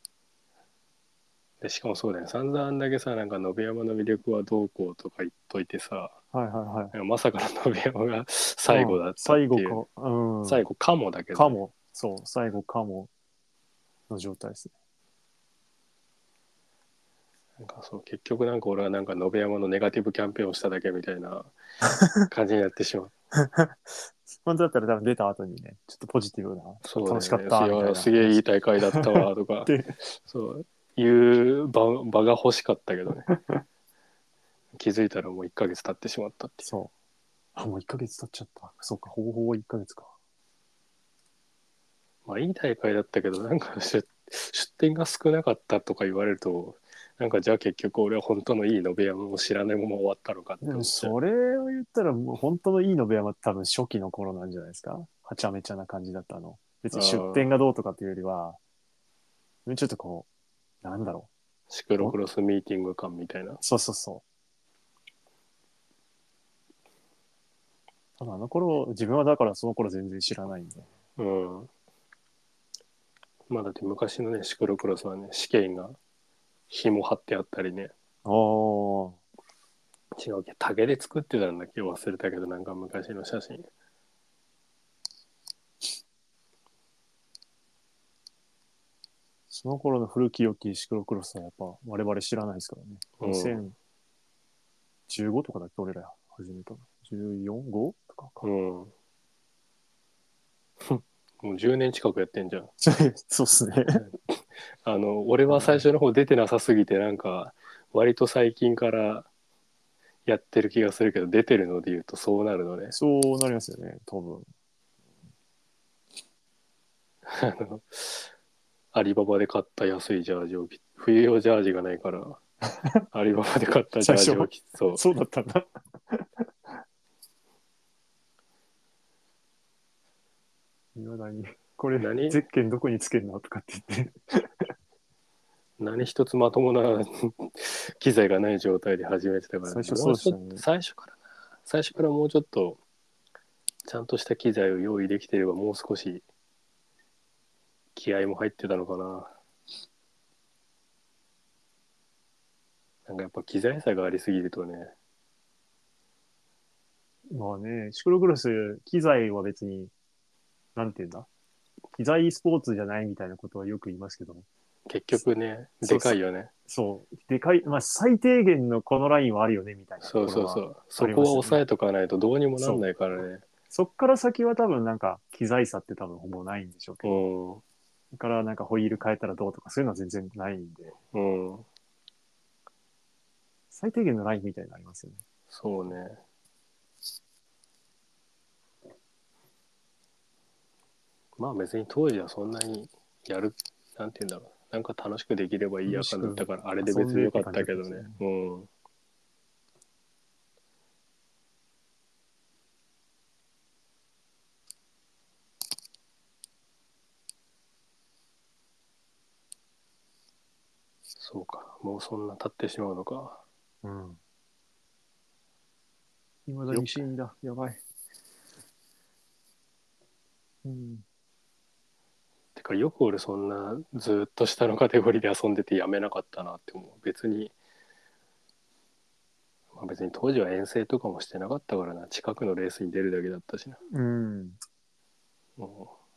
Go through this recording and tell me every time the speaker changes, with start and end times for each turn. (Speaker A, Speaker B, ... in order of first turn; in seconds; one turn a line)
Speaker A: 1.6-6.2
Speaker B: 6.3-6.9
Speaker A: 6.9-9.8
Speaker B: 8.7-10.6
Speaker A: 10.4-11.6
Speaker B: 11.3-13.1
Speaker B: 14.1-14.7
Speaker A: 17.6-21.5
Speaker A: 22.2-23.1
Speaker B: 23.4-28.4
Speaker A: 26.8-33.3
Speaker B: 28.9-29.9
Speaker B: 33.3-33.5
Speaker A: 34.8-36.7
Speaker B: 36.6-36.9
Speaker B: 37.5-40.1
Speaker A: 42.2-51.1
Speaker B: 50.6-58.6
Speaker A: 56.9-57.5
Speaker B: 59.6-60.3
Speaker B: 60.8-61.3
Speaker A: 61.7-63.6
Speaker B: 63.6-64.2
Speaker B: 68.2-70.9
Speaker A: 71.2-71.7
Speaker A: 73.5-76.0
Speaker A: 76.7-77.9
Speaker B: 78.2-79.2
Speaker A: 80.2-83.7
Speaker B: 89.5-93.7
Speaker A: 93.2-93.6
Speaker B: 95.1-98.4
Speaker A: 98.4-98.9
Speaker A: 100.8-102.7
Speaker B: 102.8-104.0
Speaker A: 104.0-109.3
Speaker B: 105.5-105.8
Speaker A: 110.2-112.9
Speaker B: 112.9-114.5
Speaker A: 117.2-118.3
Speaker A: 118.9-122.4
Speaker A: 123.1-125.0
Speaker B: 124.0-126.8
Speaker B: 130.9-134.7
Speaker A: 132.0-132.4
Speaker A: 135.8-142.8
Speaker B: 139.7-140.6
Speaker A: 143.8-146.2
Speaker A: 147.9-149.3
Speaker A: 153.1-154.9
Speaker B: 157.3-159.9
Speaker B: 160.7-161.3
Speaker B: 161.9-164.4
Speaker A: 164.9-166.5
Speaker B: 165.8-166.1
Speaker B: 166.7-171.6
Speaker A: 170.0-173.4
Speaker B: 172.6-172.8
Speaker B: 173.7-177.2
Speaker A: 177.0-177.6
Speaker B: 178.1-180.9
Speaker A: 181.1-181.7
Speaker B: 183.7-185.2
Speaker A: 185.5-186.2
Speaker A: 191.4-198.7
Speaker B: 195.9-198.2
Speaker A: 211.2-213.4
Speaker B: 213.8-214.2
Speaker B: 216.5-217.8
Speaker A: 216.7-217.0
Speaker B: 220.6-221.0
Speaker A: 222.6-227.5
Speaker A: 229.7-233.8
Speaker B: 233.9-234.6
Speaker A: 235.6-235.9